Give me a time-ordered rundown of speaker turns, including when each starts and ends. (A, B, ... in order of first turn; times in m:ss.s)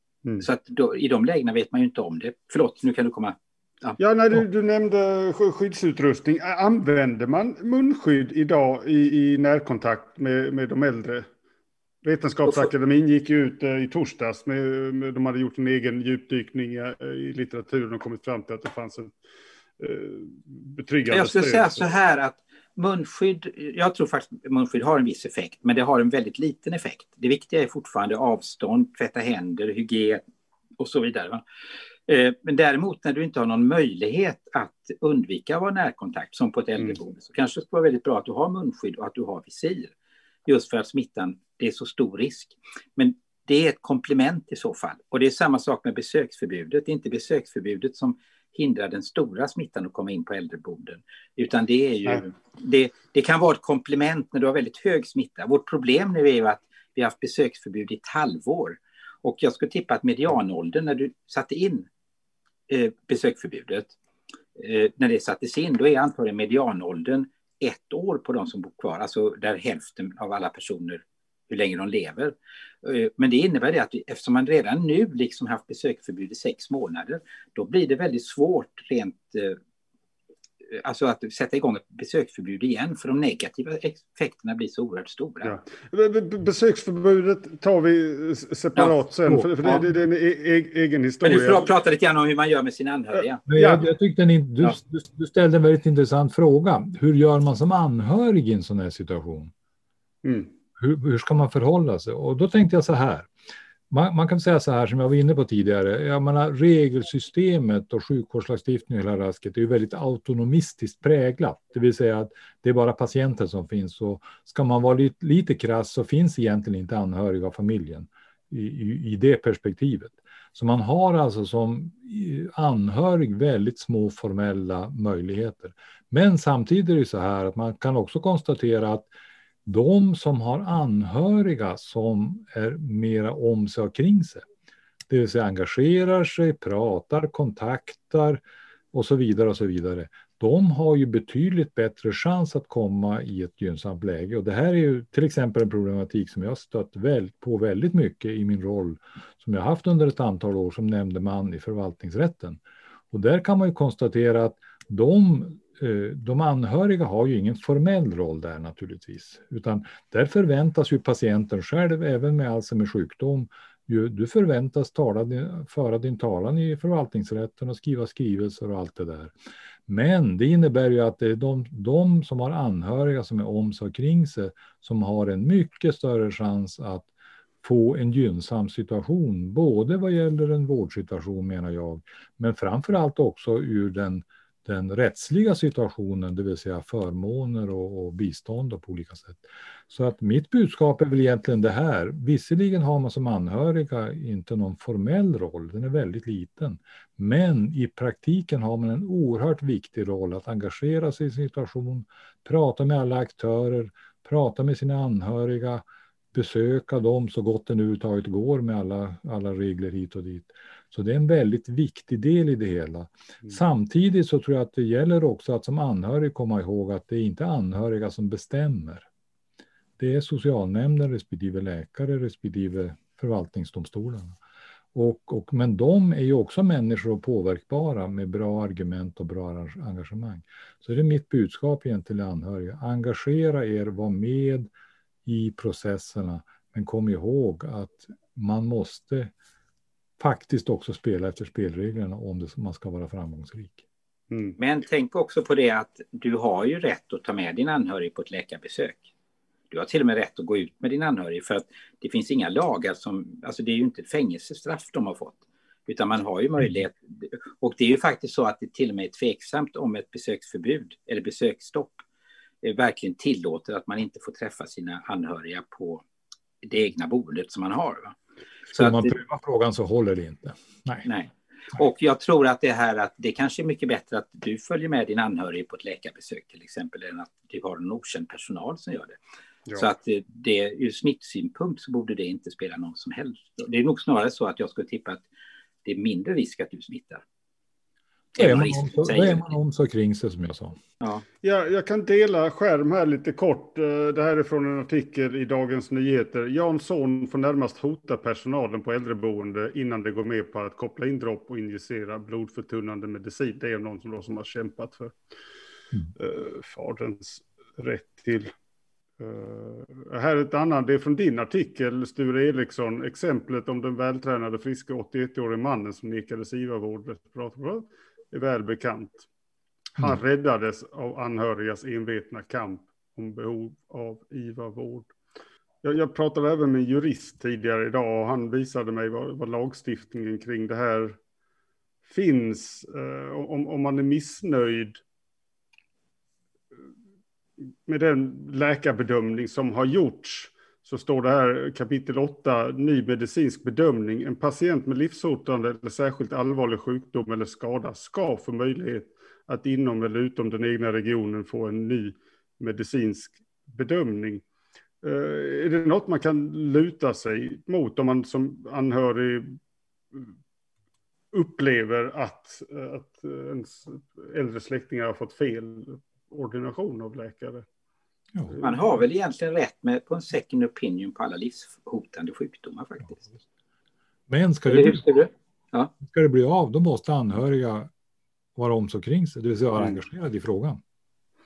0:00.4-0:04.0 A
0:04.0-0:11.3 B
0:12.0-0:19.1 B
0:19.8-0:21.9 B
0:21.1-0:30.2 A
0:30.8-0:31.4 A
0:32.1-0:39.9 A
0:40.4-1:01.9 A
1:02.7-1:03.9 A
1:04.6-1:19.6 A
1:20.7-1:25.6 A
1:25.4-1:31.7 B
1:31.2-1:33.4 A
1:33.5-1:39.5 C
1:33.6-1:33.8 B
1:40.2-1:40.5 B
1:40.8-1:43.3 C
1:43.9-2:09.1 C
2:09.6-2:14.4 C
2:15.1-2:18.4 C
2:18.9-2:49.3 C
2:49.9-2:57.1 C
2:57.6-3:25.8 C
3:26.3-3:39.1 C
3:40.0-3:44.4 C
3:44.9-3:54.7 C
3:55.2-3:59.3 C
4:00.2-4:03.8 C
4:04.3-4:04.6 B
4:04.6-4:09.0 A
4:09.7-4:22.0 A
4:22.6-4:26.0 A
4:26.6-4:28.2 A
4:28.7-4:29.1 A
4:28.7-4:31.1 C
4:31.0-4:39.2 A
4:39.8-4:45.2 A
4:45.8-4:47.2 A
4:48.4-4:50.8 C
4:48.4-4:49.5 A
4:51.4-5:05.2 B
5:06.2-5:08.5 B
5:09.2-5:19.3 B
5:20.0-5:25.1 B
5:25.8-5:31.2 B
5:32.0-5:35.0 B
5:37.9-5:54.4 B
5:55.0-5:59.6 B
6:01.3-6:07.7 B
6:08.5-6:08.8 B
6:08.6-6:13.2 A
6:14.3-6:15.2 C
6:14.7-6:15.9 A
6:16.0-6:17.9 C
6:18.6-6:20.8 C